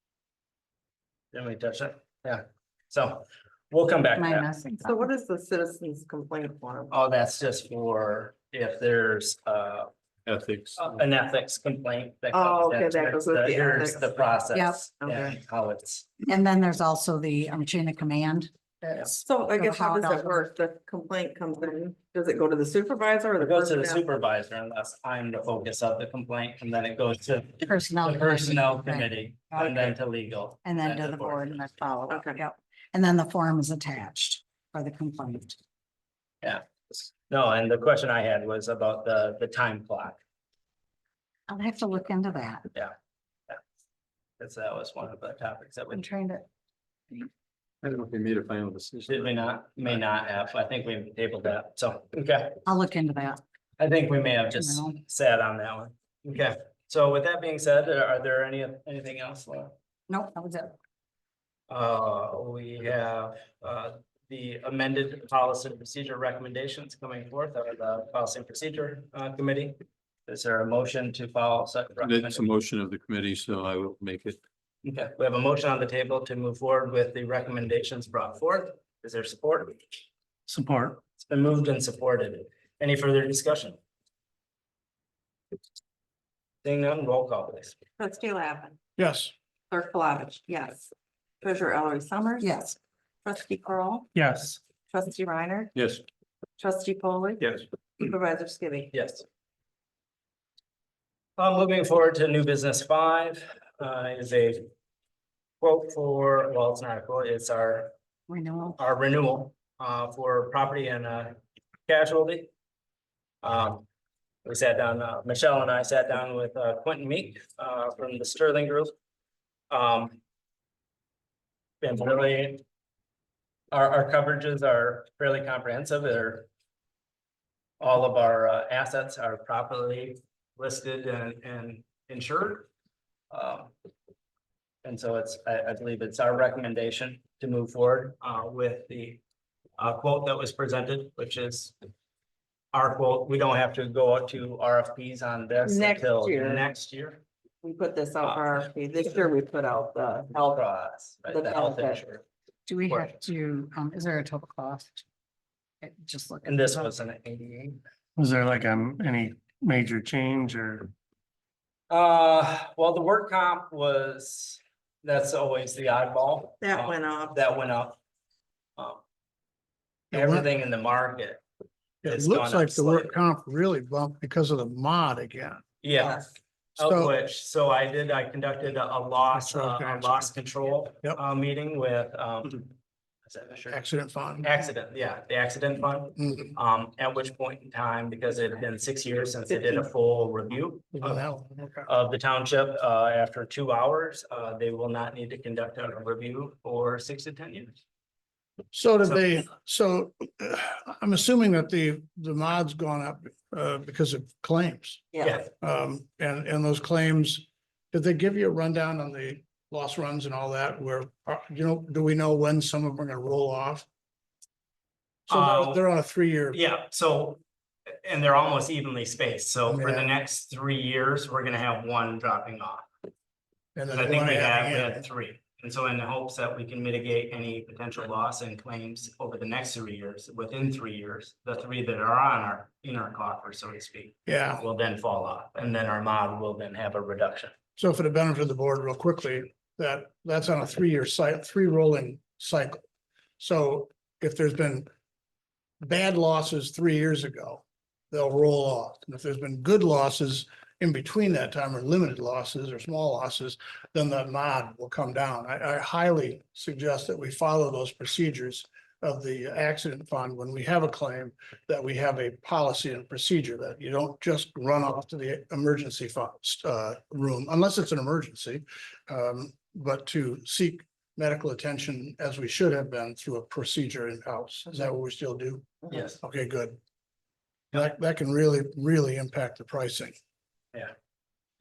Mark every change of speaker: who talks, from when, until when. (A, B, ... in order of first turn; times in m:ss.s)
0:01.3-0:04.5 A
0:04.2-0:05.0 B
0:04.8-0:06.9 C
0:06.9-0:09.9 A
0:10.8-0:16.1 A
0:12.3-0:14.1 C
0:14.5-0:14.8 B
0:15.0-0:15.3 C
0:16.3-0:20.4 B
0:19.1-0:24.0 C
0:23.4-0:31.7 A
0:27.6-0:29.9 B
0:30.6-0:35.6 B
0:32.1-0:32.4 C
0:36.4-0:40.2 A
0:41.5-0:42.6 B
0:44.4-0:46.1 A
0:45.9-0:46.5 B
0:48.0-0:49.2 D
0:49.1-0:52.6 A
0:52.6-0:53.4 B
0:53.8-0:59.7 A
0:54.5-0:55.0 B
1:00.1-1:00.8 B
1:01.7-1:12.5 A
1:12.4-1:14.3 D
1:14.8-1:19.8 A
1:21.2-1:23.8 A
1:26.6-1:27.8 A
1:28.0-1:28.8 C
1:29.0-1:29.3 E
1:29.7-1:30.9 C
1:31.4-1:32.6 C
1:32.4-1:32.8 B
1:33.2-1:34.1 C
1:34.9-1:35.7 C
1:36.6-1:38.9 C
1:38.9-1:39.2 A
1:41.4-1:44.7 A
1:45.6-1:47.9 A
1:48.3-1:48.8 B
1:48.8-1:51.4 A
1:51.9-1:52.5 A
1:53.4-1:53.8 A
1:54.4-1:58.9 A
1:59.7-2:00.2 A
2:01.8-2:02.6 A
2:03.7-2:06.5 A
2:07.8-2:12.7 A
2:13.3-2:13.7 A
2:14.8-2:19.2 A
2:19.8-2:21.8 A
2:22.7-2:27.2 A
2:25.6-2:26.6 C
2:27.6-2:30.6 C
2:28.2-2:28.6 A
2:30.4-2:32.2 A
2:31.3-2:32.0 C
2:32.7-2:35.0 B
2:32.8-2:33.2 A
2:35.8-2:36.9 B
2:36.5-2:37.8 A
2:38.2-2:40.9 F
2:41.9-2:48.0 A
2:46.6-2:47.4 C
2:48.8-2:49.0 A
2:50.1-2:51.4 A
2:50.1-2:50.5 E
2:52.0-2:56.2 E
2:52.1-2:53.2 A
2:55.8-3:02.7 A
2:56.8-2:57.2 E
2:59.3-3:00.3 E
3:03.3-3:03.8 A
3:03.7-3:04.6 E
3:04.4-3:11.3 A
3:06.2-3:06.5 E
3:11.0-3:11.9 E
3:11.9-3:17.8 A
3:18.7-3:25.1 E
3:25.2-3:25.5 A
3:25.6-3:33.9 E
3:35.3-3:36.6 E
3:35.3-3:35.8 A
3:36.5-3:37.4 A
3:38.0-3:42.9 A
3:39.6-3:40.2 E
3:43.8-3:45.0 E
3:43.9-3:57.5 A
3:54.3-3:54.7 E
3:57.8-4:02.8 E
4:03.4-4:04.9 E
4:05.8-4:36.8 E
4:35.9-4:36.2 A
4:37.7-4:40.2 E